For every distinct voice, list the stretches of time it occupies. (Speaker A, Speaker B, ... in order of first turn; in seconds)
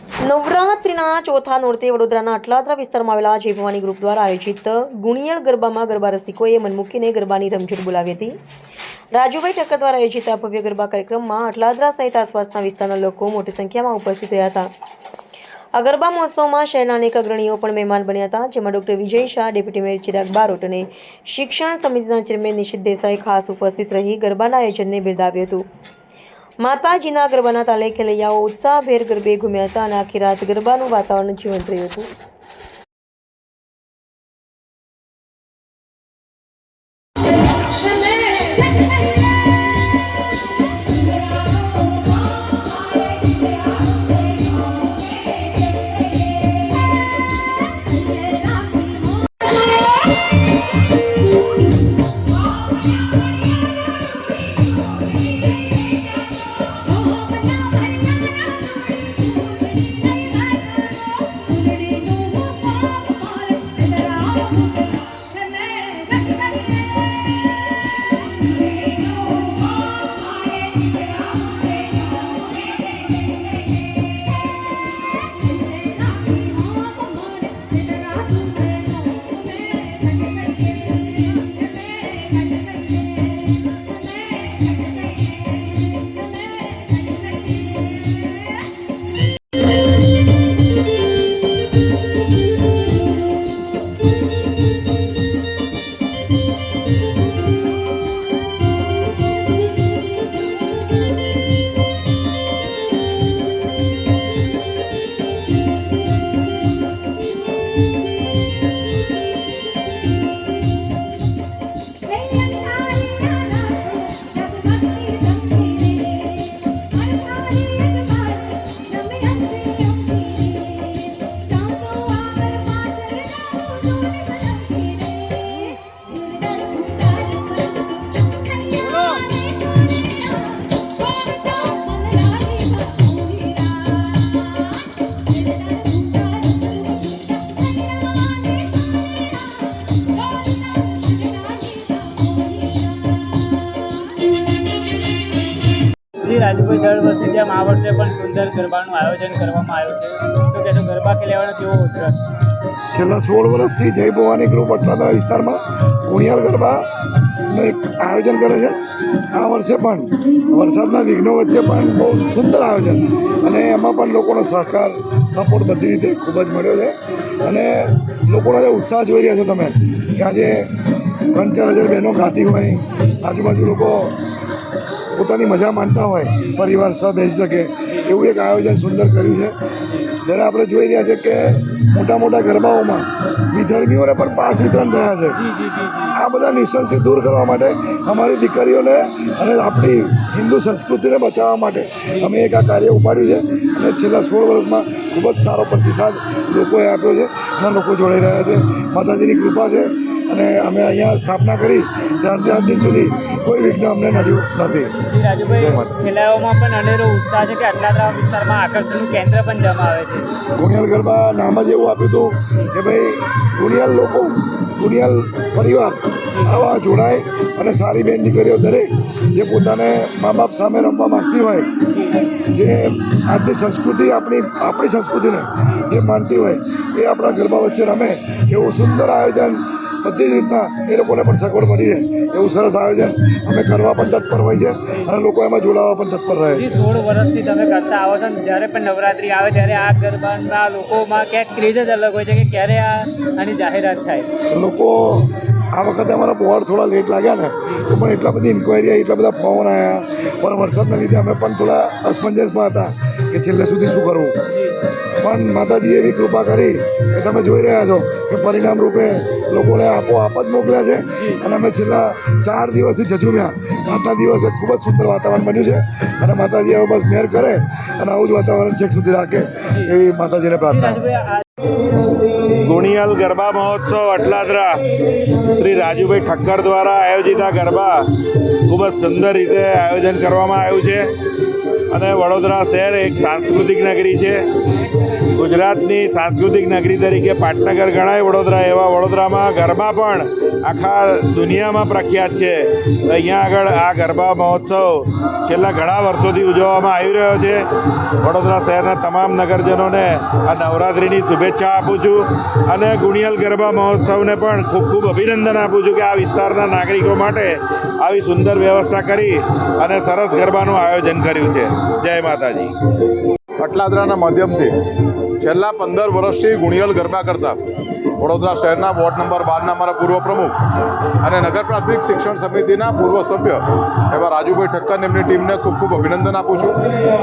Speaker A: 0.2-8.4, 9.1-14.7, 15.8-25.6, 26.6-32.1
Speaker B: 146.2-152.2, 179.8-180.2, 185.3-186.2, 205.1-210.3, 216.3-216.6, 221.8-222.3, 236.5-244.3, 254.5-254.8, 261.2-261.4, 269.7-269.9, 270.7-271.4
Speaker C: 152.9-156.9, 157.5-170.7, 171.3-174.2, 175.2-179.6, 180.2-185.4, 186.1-204.9, 205.5-205.9, 210.6-221.7, 222.4-236.7, 244.5-254.4, 255.2-271.0
Speaker D: 272.6-274.8, 275.4-278.0, 278.7-281.1, 281.9-284.4, 285.3-297.6, 298.2-312.7
Speaker E: 313.6-314.7, 315.4-317.6, 318.2-320.6, 321.2-326.8